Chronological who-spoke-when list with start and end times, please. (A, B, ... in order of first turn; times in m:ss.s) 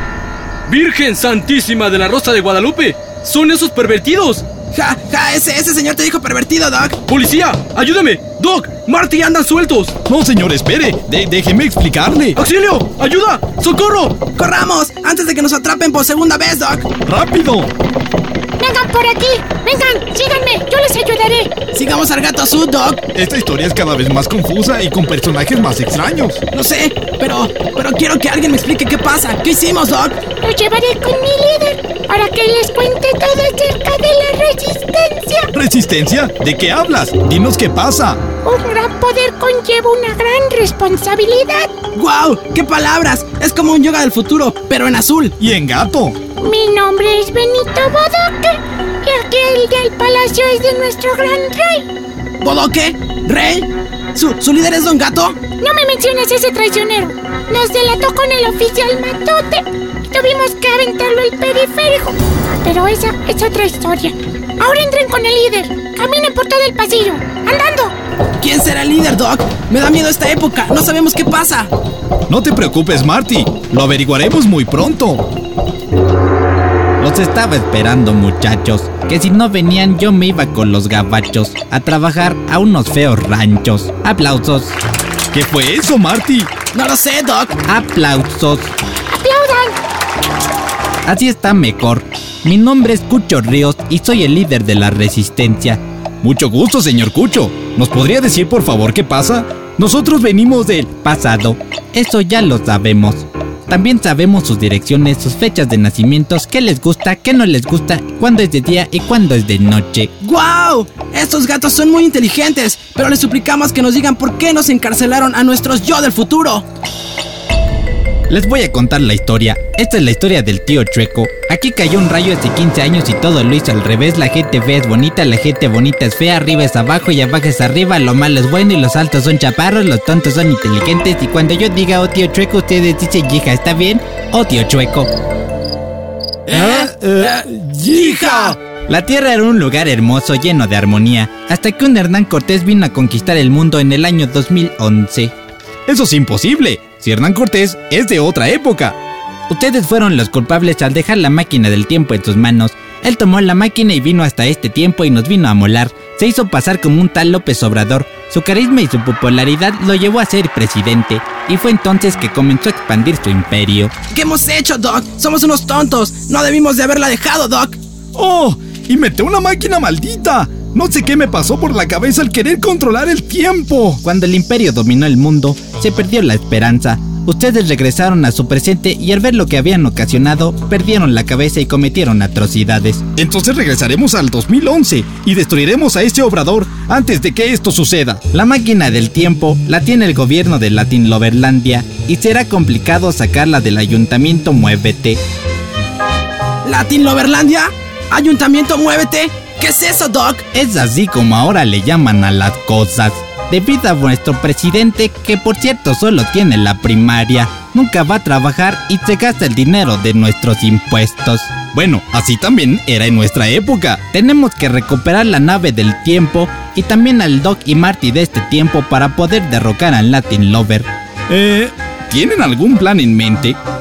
0:04.7-0:07.0 A
0:07.2-0:07.6 B
0:08.4-0:08.9 B
0:08.8-0:09.6 A
0:09.5-0:09.9 B
0:10.1-0:12.4 C
0:12.4-0:14.2 B
0:14.3-0:16.9 A
0:17.0-0:17.7 C
0:18.6-0:21.5 D
0:21.7-0:23.0 A
0:23.2-0:26.4 C
0:26.5-0:30.2 A
0:30.4-0:35.5 D
0:35.5-0:38.2 C
0:38.4-0:41.7 D
0:42.0-0:45.3 A
0:45.4-0:46.2 C
0:46.4-0:51.9 D
0:52.4-0:55.4 A
0:55.6-1:07.9 D
1:08.4-1:11.7 A
1:12.3-1:15.3 C
1:17.0-1:24.8 E
1:25.3-1:26.5 C
1:26.7-1:27.6 A
1:27.7-1:28.8 E
1:29.2-1:29.8 D
1:31.1-1:35.8 E
1:36.2-1:40.9 C
1:40.9-1:50.1 E
1:50.2-1:56.6 A
1:58.3-2:15.1 E
2:16.5-2:18.6 A
2:16.5-2:18.6 C
2:18.9-2:25.3 E
2:25.9-2:26.9 C
2:26.8-2:28.0 E
2:28.0-2:29.0 C
2:29.5-2:43.9 E
2:44.1-2:47.8 A
2:48.2-2:54.0 C
2:54.0-3:03.0 E
3:03.2-3:08.2 C
3:08.3-3:15.2 E
3:16.6-3:20.4 A
3:20.5-3:31.6 E
3:31.6-3:32.8 C
3:32.7-3:40.9 E
3:33.6-3:34.0 C
3:41.3-3:43.1 C
3:43.1-3:43.6 E